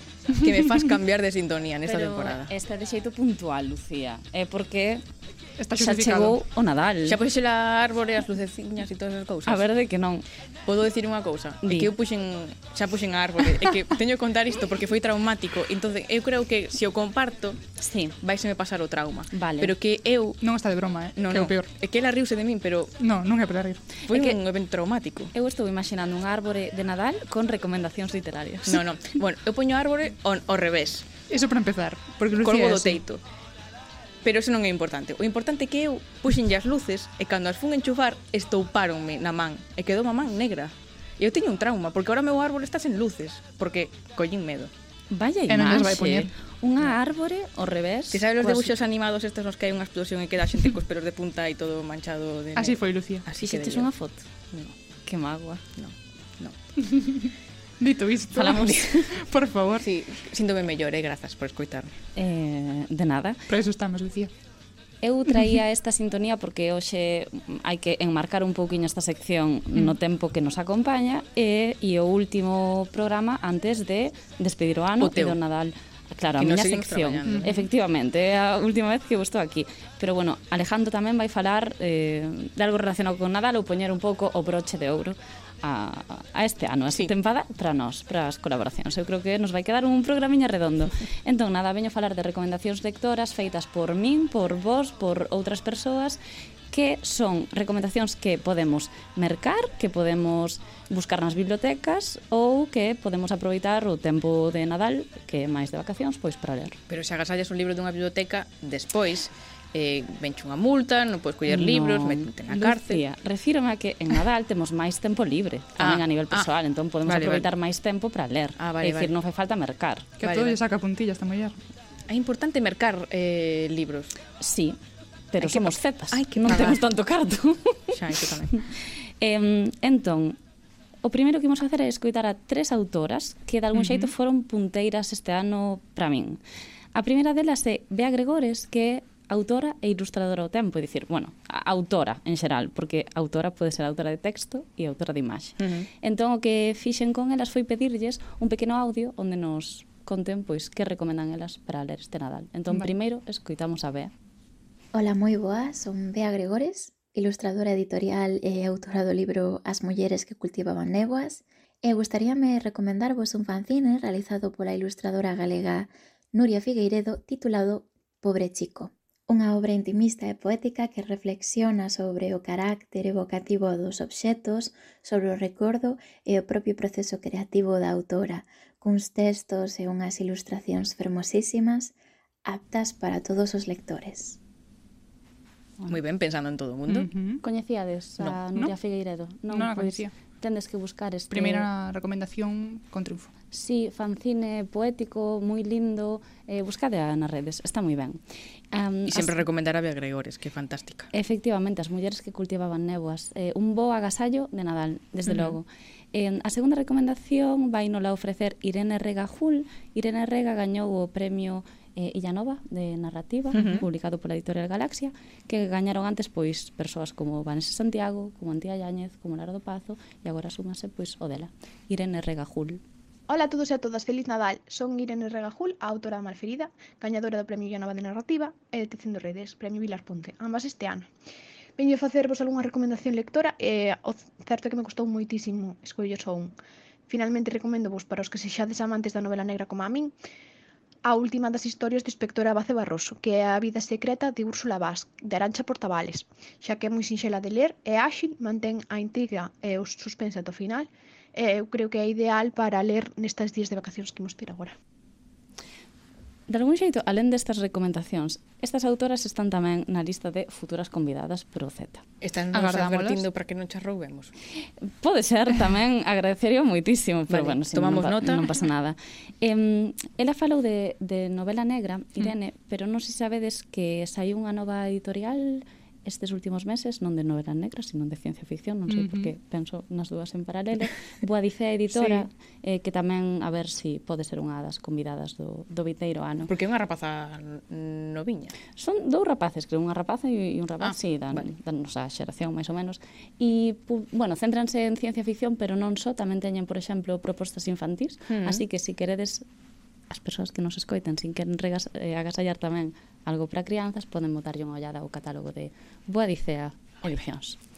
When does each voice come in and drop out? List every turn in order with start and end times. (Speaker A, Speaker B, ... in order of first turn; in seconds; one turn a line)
Speaker A: 0.3-2.5
Speaker B: 1.9-5.0
Speaker C: 5.6-6.4
Speaker B: 5.8-7.2
Speaker A: 7.1-9.6
Speaker B: 9.5-10.2
Speaker A: 10.7-17.6
Speaker B: 11.6-11.9
Speaker B: 17.8-18.1
Speaker A: 18.2-20.4
Speaker B: 19.3-19.7
Speaker C: 20.4-21.7
Speaker A: 21.2-22.9
Speaker C: 23.0-23.9
Speaker B: 24.1-24.4
Speaker A: 24.1-25.3
Speaker B: 25.3-28.8
Speaker A: 28.7-31.1
Speaker C: 31.3-33.0
Speaker A: 32.3-33.2
Speaker A: 34.2-44.7
Speaker B: 45.1-48.7
Speaker C: 45.5-46.3
Speaker A: 48.1-53.9
Speaker C: 52.6-53.3
Speaker B: 53.4-54.3
Speaker B: 55.0-55.7
Speaker A: 55.8-56.5
Speaker C: 56.9-57.3
Speaker C: 57.8-59.9
Speaker B: 58.4-59.1
Speaker A: 59.8-61.9
Speaker B: 62.2-63.4
Speaker C: 63.5-64.3
Speaker B: 65.0-96.2
Speaker A: 75.0-75.4
Speaker A: 76.4-77.6
Speaker C: 77.3-77.7
Speaker B: 96.7-106.8
Speaker A: 106.9-113.0
Speaker B: 111.5-120.1
Speaker A: 115.8-116.5
Speaker A: 117.0-117.5
Speaker A: 118.6-119.1
Speaker C: 120.2-121.6
Speaker A: 120.2-120.6
Speaker A: 122.1-124.1
Speaker B: 124.4-124.8
Speaker B: 125.3-128.0
Speaker A: 125.4-126.8
Speaker A: 127.9-128.6
Speaker B: 129.2-130.4
Speaker B: 131.0-136.4
Speaker A: 133.8-134.1
Speaker B: 137.0-154.1
Speaker A: 145.6-145.9
Speaker D: 154.9-181.9
Speaker D: 182.5-184.4
Speaker A: 185.9-187.1
Speaker C: 186.9-187.4
Speaker B: 187.4-191.7
Speaker C: 189.5-190.1
Speaker C: 191.3-193.3
Speaker B: 193.5-198.2
Speaker B: 198.7-199.4
Speaker A: 199.1-201.1
Speaker B: 201.1-222.8
Speaker A: 213.5-213.9
Speaker E: 223.3-231.1
Speaker E: 231.8-236.6
Speaker E: 237.1-240.2
Speaker E: 241.1-254.8
Speaker B: 256.5-262.0
Speaker A: 262.2-264.3
Speaker C: 262.5-263.2
Speaker B: 264.6-286.5
Speaker A: 267.3-268.5
Speaker C: 278.9-279.3
Speaker C: 282.0-282.2
Speaker A: 286.5-288.5
Speaker B: 288.8-299.4
Speaker A: 290.8-291.5
Speaker A: 298.3-298.6
Speaker B: 300.1-307.6